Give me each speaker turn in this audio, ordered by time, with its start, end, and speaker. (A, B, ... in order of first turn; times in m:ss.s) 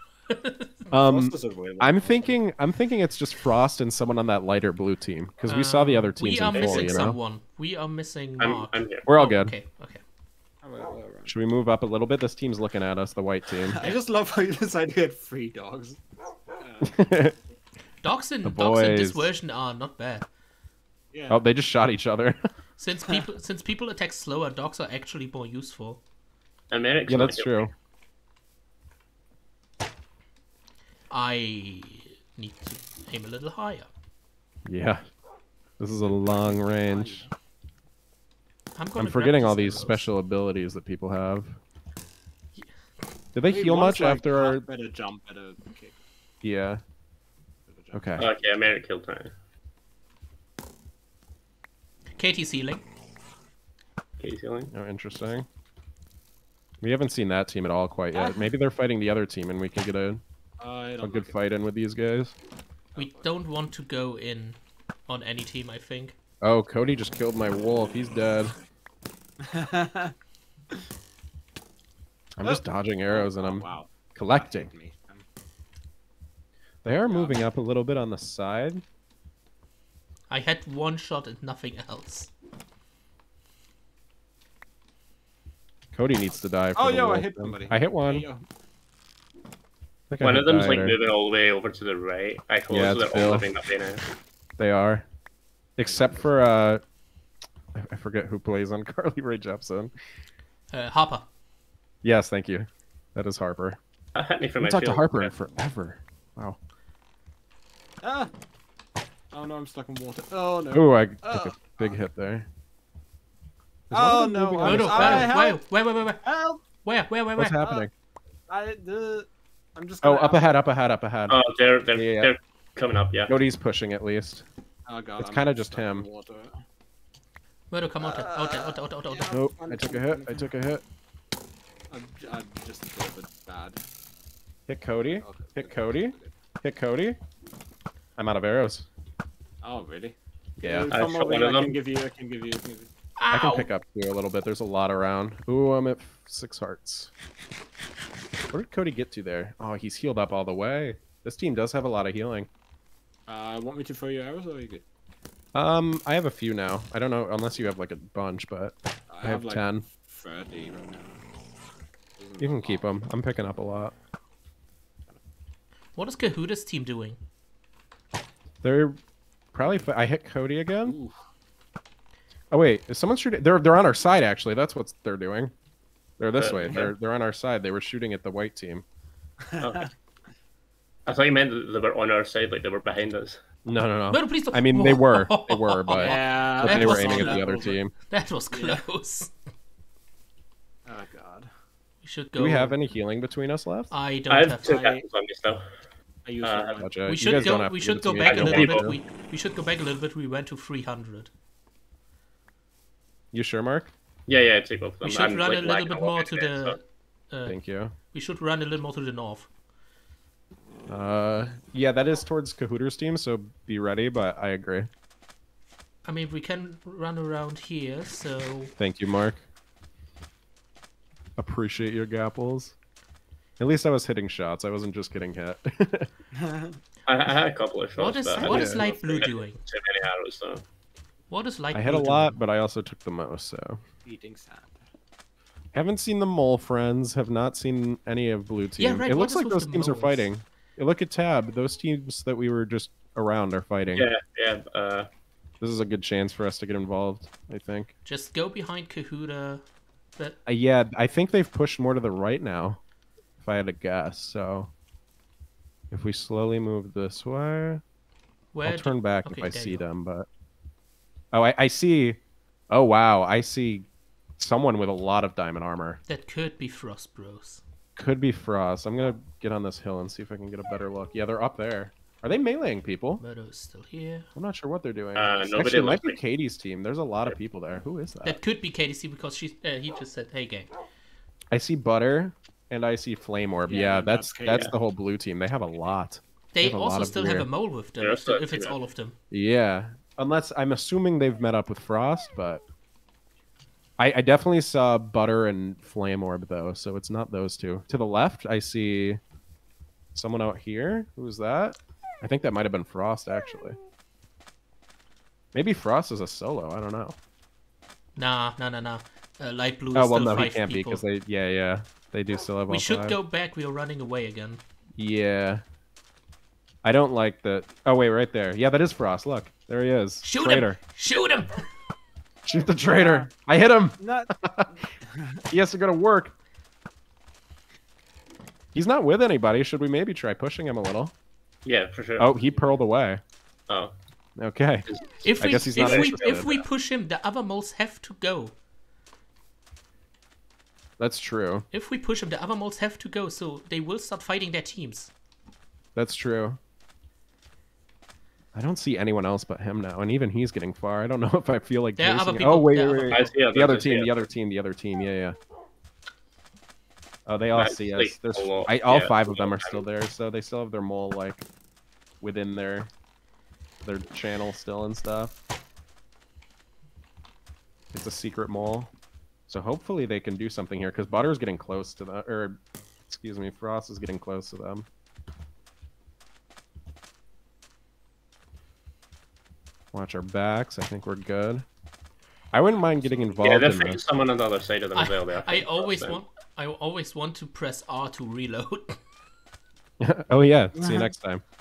0:00.3-0:00.8 A
0:00.9-0:07.2 B
0:00.9-0:02.4 C
0:05.5-0:10.0 A
0:06.5-0:06.9 C
0:08.4-0:09.0 D
0:09.0-0:09.5 B
0:10.6-0:11.3 C
0:11.2-0:13.9 B
0:13.6-0:16.0 C
0:16.6-0:17.0 C
0:16.8-0:17.3 B
0:18.0-0:20.3 A
0:18.4-0:19.3 B
0:21.1-0:21.4 C
0:21.3-0:22.4 B
0:22.8-0:26.0 A
0:26.7-0:27.7 D
0:27.1-0:27.7 B
0:31.1-0:33.9 A
0:34.6-0:35.0 B
0:35.8-0:37.2 B
0:36.0-0:37.3 C
0:38.7-0:40.1 A
0:39.0-0:41.6 B
0:43.3-0:44.6 B
0:43.5-0:46.0 C
0:46.4-0:46.8 B
0:47.7-0:48.4 C
0:47.9-0:48.2 B
0:48.2-0:49.3 D
0:52.2-0:52.8 A
0:54.2-0:54.7 D
0:54.7-0:55.4 B
0:56.8-1:00.2 B
1:00.6-1:01.4 C
1:01.0-1:02.3 B
1:02.9-1:03.3 C
1:02.9-1:06.1 A
1:06.4-1:08.5 B
1:09.4-1:10.1 C
1:12.4-1:14.7 B
1:12.4-1:15.2 C
1:16.8-1:18.8 B
1:16.9-1:17.5 C
1:20.3-1:22.3 A
1:25.9-1:28.3 B
1:26.7-1:28.4 C
1:30.1-1:31.0 B
1:30.2-1:34.0 D
1:32.7-1:33.5 B
1:34.6-1:35.0 B
1:35.8-1:36.8 B
1:35.8-1:36.4 C
1:37.7-1:39.9 B
1:40.7-1:41.2 A
1:42.0-1:43.8 B
1:44.1-1:45.3 D
1:44.6-1:46.6 B
1:48.0-1:48.3 C
1:49.3-1:52.0 C
1:50.7-1:52.5 B
1:53.9-1:55.4 B
1:53.9-1:55.6 C
1:54.6-1:56.2 A
1:56.2-1:56.6 C
1:56.8-1:57.6 A
1:57.4-1:57.9 B
1:57.6-1:57.9 C
1:58.5-2:00.6 C
2:00.0-2:01.4 B
2:01.3-2:03.3 D
2:01.9-2:02.3 B
2:03.3-2:04.4 B
2:04.9-2:06.6 C
2:05.2-2:06.1 B
2:07.7-2:09.4 A
2:08.0-2:10.5 C
2:09.2-2:10.8 B
2:11.9-2:13.8 C
2:14.7-2:17.2 B
2:15.1-2:16.3 C
2:18.2-2:18.9 B
2:19.6-2:22.9 C
2:20.6-2:20.9 B
2:20.9-2:21.8 D
2:23.2-2:23.7 A
2:23.3-2:27.1 B
2:28.5-2:32.5 B
2:33.3-2:34.8 C
2:35.5-2:39.8 B
2:39.1-2:41.2 C
2:42.2-2:42.9 C
2:42.4-2:43.9 B
2:45.9-2:47.2 A
2:48.6-2:49.0 B
2:49.5-2:51.0 B
2:50.8-2:51.2 C
2:52.5-2:55.5 B
2:56.2-2:58.8 B
2:56.3-2:56.9 D
2:59.4-2:59.9 C
2:59.6-2:59.9 D
3:01.0-3:03.4 D
3:03.6-3:07.9 B
3:04.1-3:07.5 A
3:06.0-3:07.8 C
3:08.1-3:09.3 A
3:08.5-3:08.8 C
3:10.8-3:11.5 C
3:12.0-3:12.8 A
3:12.3-3:13.9 B
3:13.9-3:14.8 A
3:14.3-3:15.7 D
3:14.6-3:15.0 C
3:16.2-3:16.9 C
3:16.4-3:16.8 D
3:16.8-3:19.0 B
3:17.0-3:21.3 A
3:18.2-3:18.9 D
3:23.3-3:23.9 B
3:24.3-3:26.8 D
3:25.0-3:29.5 A
3:27.4-3:27.9 B
3:30.9-3:34.9 B
3:36.0-3:38.7 A
3:38.8-3:39.5 B
3:41.4-3:42.7 B
3:43.6-3:46.1 B
3:46.4-3:46.8 C
3:47.1-3:50.6 D
3:48.0-3:49.6 A
3:48.4-3:48.9 B
3:51.3-3:52.4 A
3:51.7-3:53.8 B
3:54.0-3:54.9 C
3:55.7-4:04.1 B
3:58.8-4:00.3 A
4:03.9-4:05.1 D
4:05.6-4:07.9 B
4:08.0-4:09.6 A
4:10.4-4:12.8 B
4:13.4-4:14.7 B
4:15.9-4:17.8 B
4:18.5-4:19.8 A
4:18.6-4:20.3 B
4:21.3-4:22.2 B
4:22.7-4:26.0 B
4:26.1-4:27.6 A
4:28.0-4:33.2 B
4:33.2-4:34.3 A
4:34.3-4:38.4 B
4:35.1-4:36.2 D
4:38.2-4:40.7 A
4:41.5-4:47.5 B
4:43.7-4:44.7 C
4:46.5-4:49.2 A
4:48.0-4:48.8 D
4:49.3-4:52.6 B
4:54.0-4:59.2 B
5:00.1-5:03.8 B
5:05.5-5:07.2 B
5:08.2-5:11.0 A
5:09.9-5:13.2 B
5:12.7-5:14.6 A
5:15.0-5:15.6 B
5:16.8-5:20.8 B
5:20.2-5:21.6 A
5:22.4-5:24.7 B
5:22.9-5:23.3 C
5:24.0-5:25.4 C
5:25.5-5:26.3 B
5:28.7-5:31.1 B
5:31.6-5:32.3 D
5:32.2-5:33.2 B
5:32.4-5:32.8 C
5:33.7-5:33.9 D
5:34.4-5:34.8 B
5:34.8-5:36.6 D
5:35.2-5:38.5 A
5:35.4-5:36.5 B
5:41.0-5:41.7 B
5:41.7-5:45.1 A
5:45.9-5:46.6 B
5:48.5-5:55.4 B
5:52.0-5:53.3 A
5:53.1-5:54.2 D
5:57.2-6:01.4 B
5:57.6-5:59.8 D
6:02.2-6:02.9 B
6:03.8-6:05.3 B
6:07.9-6:08.9 B
6:09.5-6:14.8 B
6:19.9-6:21.6 B
6:22.5-6:24.0 B
6:23.4-6:26.2 D
6:24.9-6:29.0 A
6:30.0-6:31.4 B
6:30.7-6:31.1 C